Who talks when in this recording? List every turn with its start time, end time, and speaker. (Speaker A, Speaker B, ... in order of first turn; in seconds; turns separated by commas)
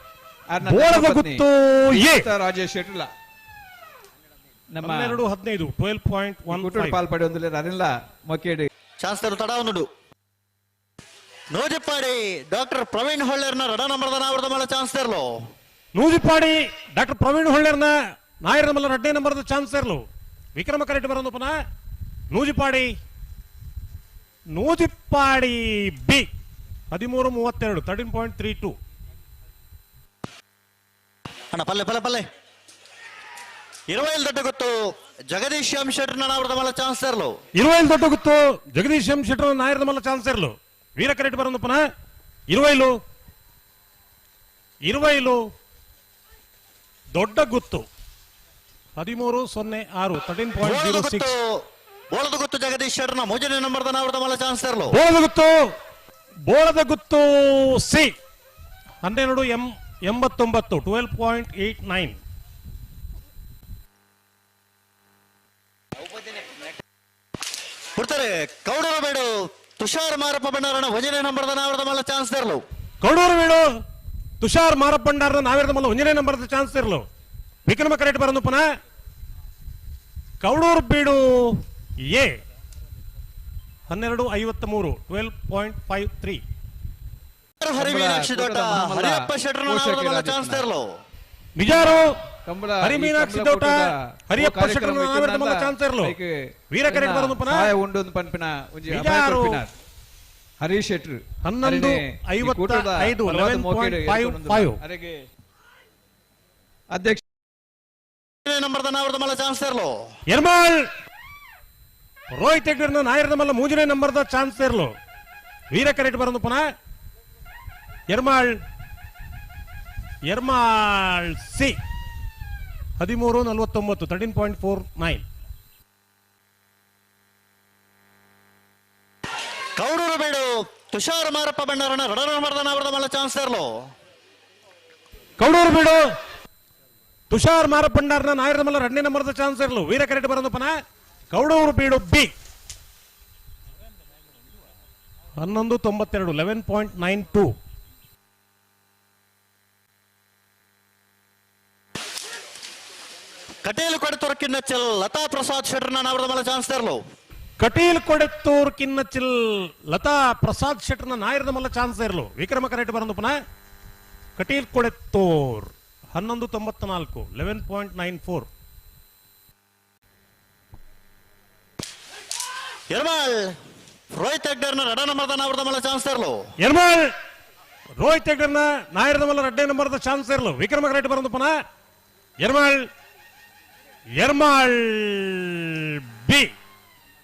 Speaker A: 0.5-3.1, Speaker B: 0.6-2.3, Speaker A: 4.7-5.2, Speaker B: 4.8-7.0, Speaker A: 6.5-8.7, Speaker C: 9.0-9.9, Speaker C: 11.5-15.3, Speaker B: 15.9-20.0, Speaker B: 20.5-21.5, Speaker B: 22.3-22.9, Speaker B: 24.5-26.3, Speaker B: 26.9-28.7, Speaker C: 31.5-32.2, Speaker C: 33.9-37.4, Speaker B: 37.5-41.8, Speaker B: 42.5-42.9, Speaker B: 44.9-45.4, Speaker B: 47.1-47.9, Speaker B: 49.0-51.3, Speaker C: 50.6-51.5, Speaker C: 52.1-55.0, Speaker B: 54.9-55.6, Speaker B: 56.5-58.1, Speaker B: 59.0-62.2, Speaker C: 68.0-72.6, Speaker B: 73.0-73.7, Speaker B: 74.4-77.0, Speaker B: 77.7-78.6, Speaker B: 80.4-82.3, Speaker B: 83.9-86.4, Speaker C: 87.6-90.9, Speaker A: 87.7-90.6, Speaker B: 91.5-92.2, Speaker A: 92.5-96.3, Speaker B: 92.8-96.2, Speaker B: 96.7-97.7, Speaker A: 96.8-99.7, Speaker B: 98.9-99.6, Speaker A: 100.6-105.2, Speaker B: 101.4-104.8, Speaker A: 106.9-107.2, Speaker C: 108.4-110.0, Speaker B: 110.3-110.8, Speaker B: 112.3-114.9, Speaker B: 115.7-116.6, Speaker B: 118.1-118.6, Speaker B: 120.3-121.8, Speaker B: 123.0-125.2, Speaker C: 129.8-133.8, Speaker B: 135.4-136.0, Speaker B: 137.3-140.7, Speaker B: 141.3-142.3, Speaker B: 145.4-147.5, Speaker C: 153.6-157.0, Speaker B: 157.6-163.3, Speaker B: 164.4-168.5, Speaker C: 172.9-173.5, Speaker C: 174.1-176.4, Speaker B: 176.6-177.1, Speaker B: 178.0-181.5, Speaker B: 182.4-182.9, Speaker B: 184.2-186.5